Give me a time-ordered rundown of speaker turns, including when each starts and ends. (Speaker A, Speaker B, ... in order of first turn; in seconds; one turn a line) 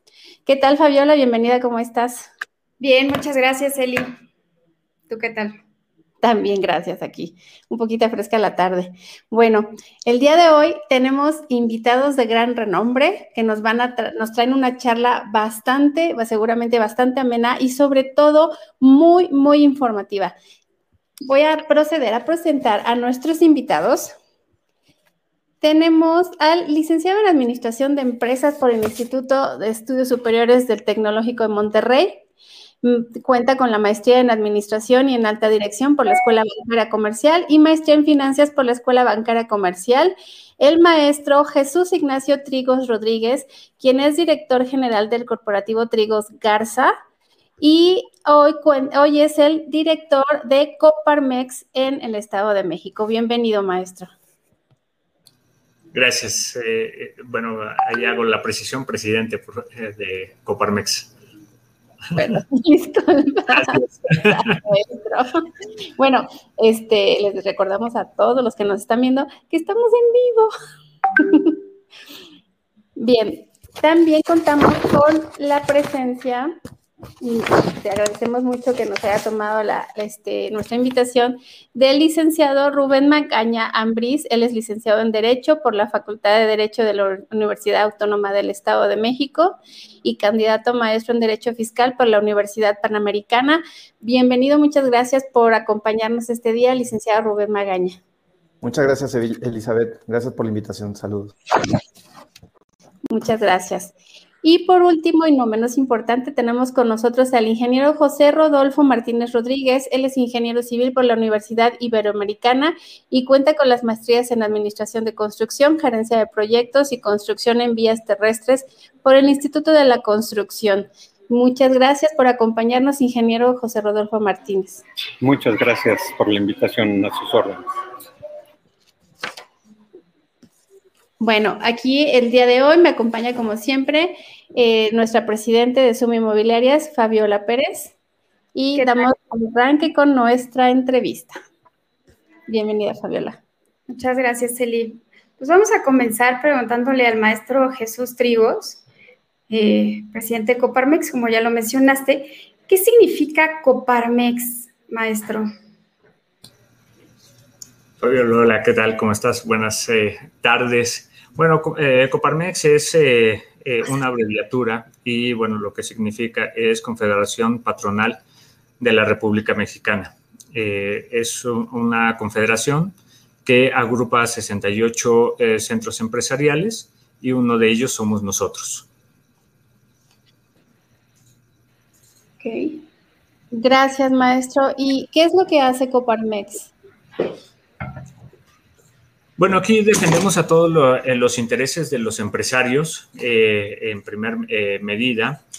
Speaker A: 0.5-2.3
Speaker B: 2.8-4.1
Speaker B: 5.1-5.5
Speaker A: 6.2-20.4
Speaker A: 21.2-24.1
Speaker A: 25.6-32.2
Speaker A: 32.8-46.9
Speaker A: 47.6-54.1
Speaker C: 55.9-61.1
Speaker A: 62.1-70.5
Speaker A: 71.2-71.6
Speaker A: 73.0-76.5
Speaker A: 77.2-98.0
Speaker D: 98.6-101.4
Speaker A: 103.1-124.8
Speaker E: 125.2-127.6
Speaker A: 131.2-137.9
Speaker A: 138.6-141.4
Speaker B: 138.8-139.1
Speaker A: 142.5-143.4
Speaker B: 143.9-148.8
Speaker B: 149.5-155.5
Speaker C: 158.0-168.2
Speaker C: 168.8-178.9
Speaker B: 182.4-182.8
Speaker A: 183.5-186.7
Speaker C: 189.4-195.4